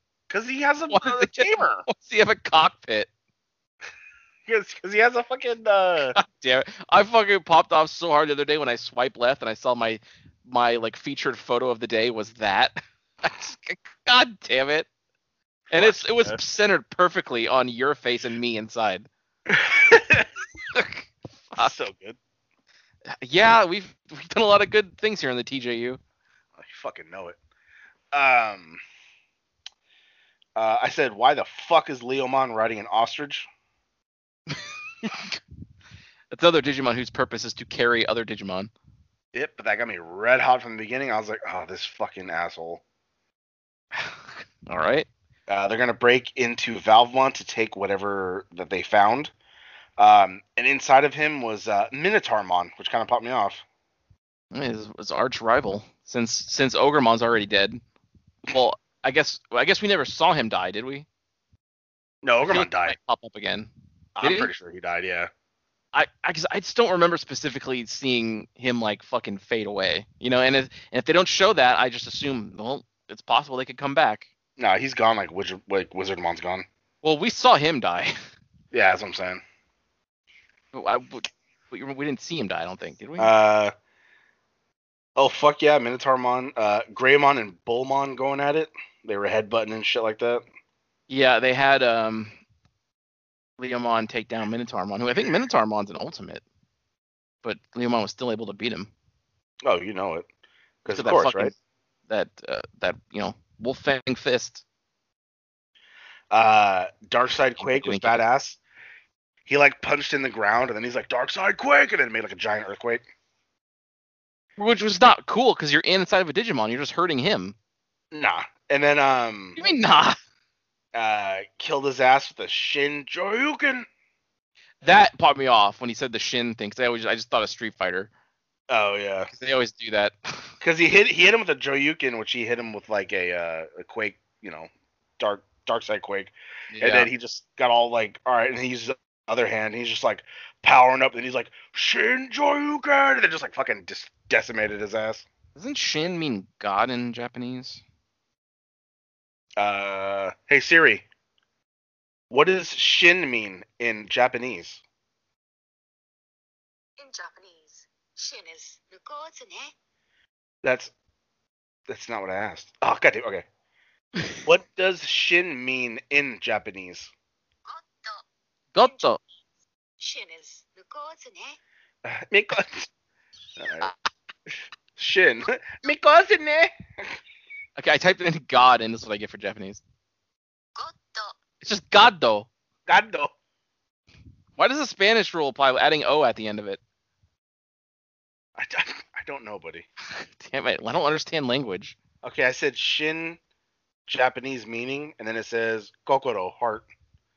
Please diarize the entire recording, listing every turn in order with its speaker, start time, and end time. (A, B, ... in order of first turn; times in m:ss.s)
0:00.3-0:01.8 A
0:00.9-0:03.1 B
0:04.4-0:06.2 A
0:06.1-0:14.9 B
0:15.7-0:19.1 B
0:15.7-0:16.4 A
0:19.5-0:20.3 A
0:20.7-0:21.8 B
0:21.6-0:22.2 A
0:23.1-0:26.0 B
0:26.6-0:27.4 A
0:28.1-0:28.8 A
0:30.6-0:33.5 A
0:34.5-0:35.4 B
0:36.3-0:38.7 B
0:39.3-0:42.8 A
0:43.9-0:45.1 B
0:45.5-0:49.3 A
0:50.0-0:53.6 A
0:54.5-0:57.8 B
0:58.4-1:01.0 B
1:02.2-1:03.0 A
1:02.4-1:03.7 B
1:04.2-1:05.3 A
1:04.2-1:04.5 B
1:05.9-1:14.3 B
1:14.6-1:16.6 A
1:17.0-1:18.2 B
1:18.7-1:19.4 A
1:20.7-1:23.3 B
1:23.2-1:23.7 A
1:25.2-1:30.4 A
1:31.1-1:32.3 B
1:33.6-1:36.4 B
1:37.4-1:38.9 B
1:39.6-1:40.2 A
1:40.8-1:41.5 A
1:40.9-1:41.5 B
1:42.1-1:44.6 B
1:46.3-1:48.6 A
1:47.6-1:48.2 B
1:49.5-1:53.0 A
1:54.6-1:57.5 B
1:58.1-1:59.6 A
1:59.6-2:00.2 B
2:00.9-2:03.9 A
2:04.8-2:08.1 B
2:08.7-2:09.3 A
2:09.3-2:10.5 B
2:10.6-2:25.2 A
2:16.7-2:17.1 B
2:25.6-2:27.8 B
2:29.6-2:31.0 A
2:32.3-2:34.8 A
2:37.0-2:39.7 C
2:40.6-2:40.9 A
2:41.9-2:43.4 A
2:44.4-2:47.1 A
2:47.6-2:48.2 C
2:48.7-2:49.2 B
2:48.8-2:49.1 C
2:50.0-2:51.6 C
2:52.0-2:52.9 A
2:53.6-2:53.9 A
2:55.0-2:57.2 A
2:57.8-2:59.8 B
3:00.8-3:01.4 C
3:01.6-3:02.5 B
3:02.9-3:03.3 A
3:04.6-3:06.8 B
3:08.6-3:09.8 A
3:10.1-3:12.0 B
3:12.2-3:13.4 A
3:14.1-3:16.9 A